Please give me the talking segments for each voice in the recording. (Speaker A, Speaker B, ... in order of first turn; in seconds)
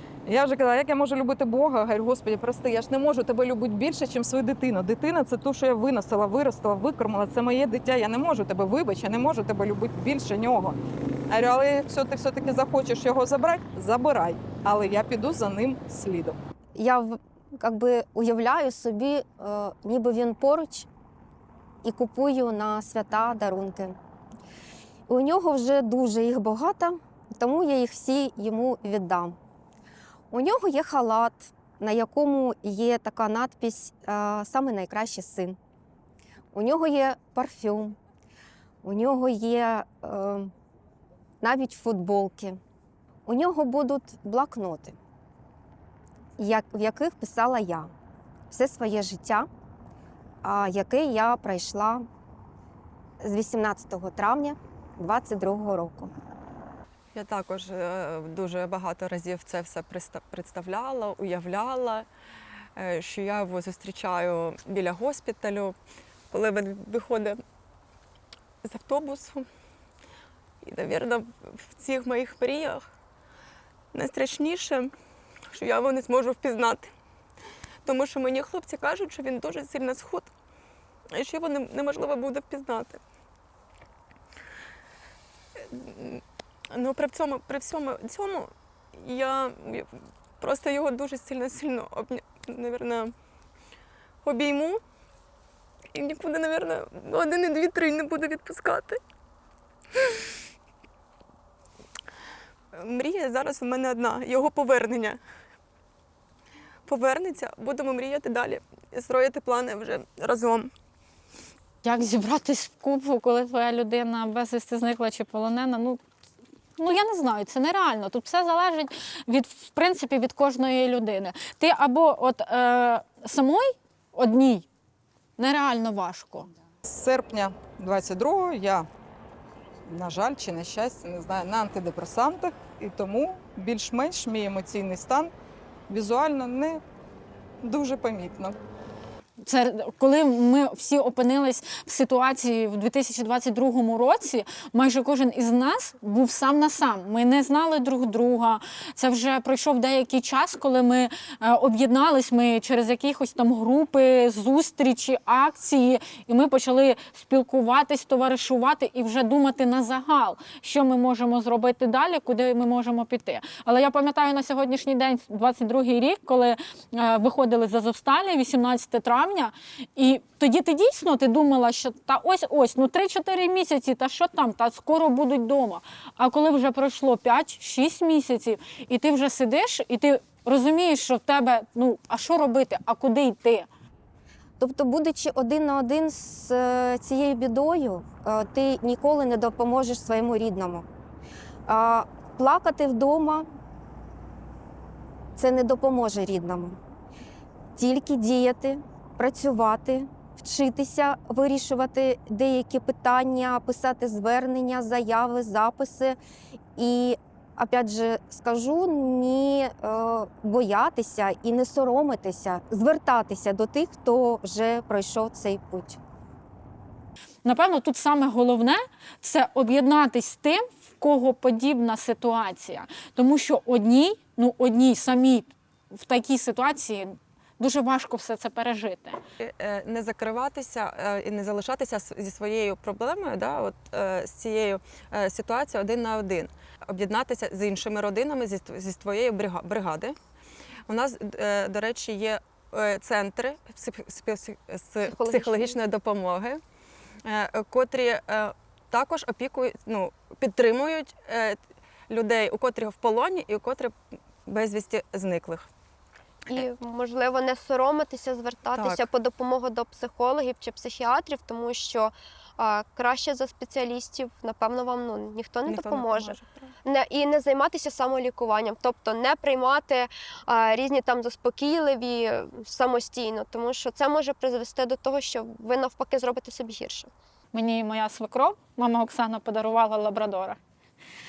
Speaker A: 0.2-16.4, 126.8-128.9, 129.8-135.3, 135.9-136.8, 137.6-138.6
Speaker B: 16.8-20.9, 21.8-24.0, 25.1-29.4, 30.3-35.6, 36.5-38.0, 38.8-40.5, 41.4-42.6, 43.2-45.0, 46.4-47.9, 48.5-49.5, 50.4-52.0, 53.2-56.1, 184.6-190.8, 191.7-193.5, 195.3-196.8, 197.8-206.2, 206.8-216.0
Speaker C: 57.1-62.1, 62.8-65.8, 66.3-67.4, 68.6-69.5, 70.6-72.8, 73.9-74.9, 75.5-76.9, 77.8-80.3, 81.1-83.0, 85.6-89.9, 90.4-93.1, 94.2-94.8, 95.9-99.0, 102.7-105.2, 106.8-110.7, 229.4-240.2, 240.9-246.6, 247.2-251.6, 252.1-255.7, 258.7-259.1, 265.6-266.7
Speaker D: 111.8-116.0, 116.8-124.7, 125.4-126.5, 139.4-183.7, 217.4-229.2, 277.5-280.6
Speaker E: 256.5-277.1